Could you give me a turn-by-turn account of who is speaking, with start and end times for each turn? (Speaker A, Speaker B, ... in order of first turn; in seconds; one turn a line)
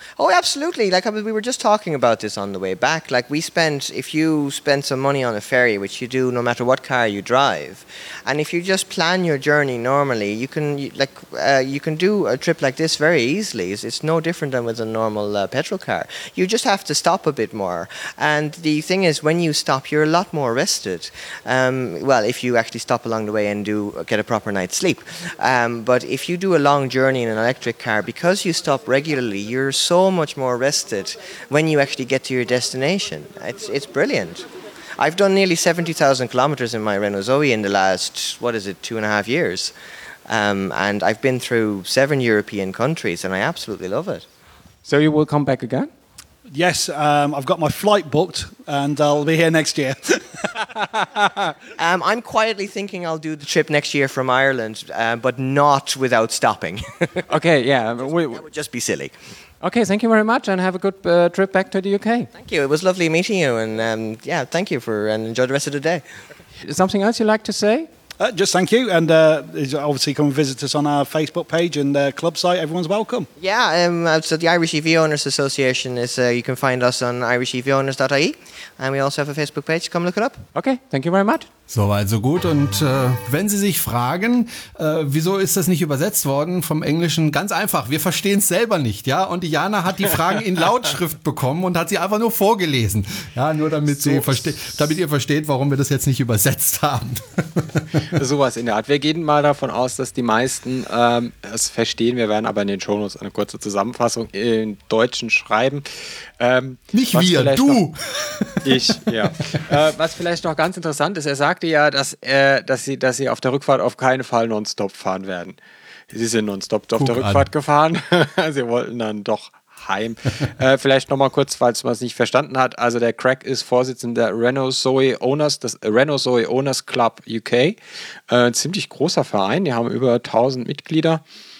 Speaker A: 0.2-39.7
Speaker A: 40.3-44.2
Speaker B: 44.8-45.9
Speaker C: 46.5-50.6
Speaker B: 50.8-51.3
Speaker A: 51.8-57.2
Speaker B: 57.3-58.5
Speaker A: 58.0-59.1
Speaker B: 59.6-62.3
Speaker A: 62.3-66.0
Speaker B: 66.6-67.9
Speaker C: 68.2-73.3
Speaker A: 73.4-80.4
Speaker B: 80.5-81.5
Speaker D: 81.7-98.0
Speaker E: 93.9-94.6
Speaker E: 98.0-107.8
Speaker D: 106.9-109.1
Speaker E: 108.6-115.6
Speaker E: 116.1-127.8
Speaker D: 116.9-117.5
Speaker E: 128.3-131.2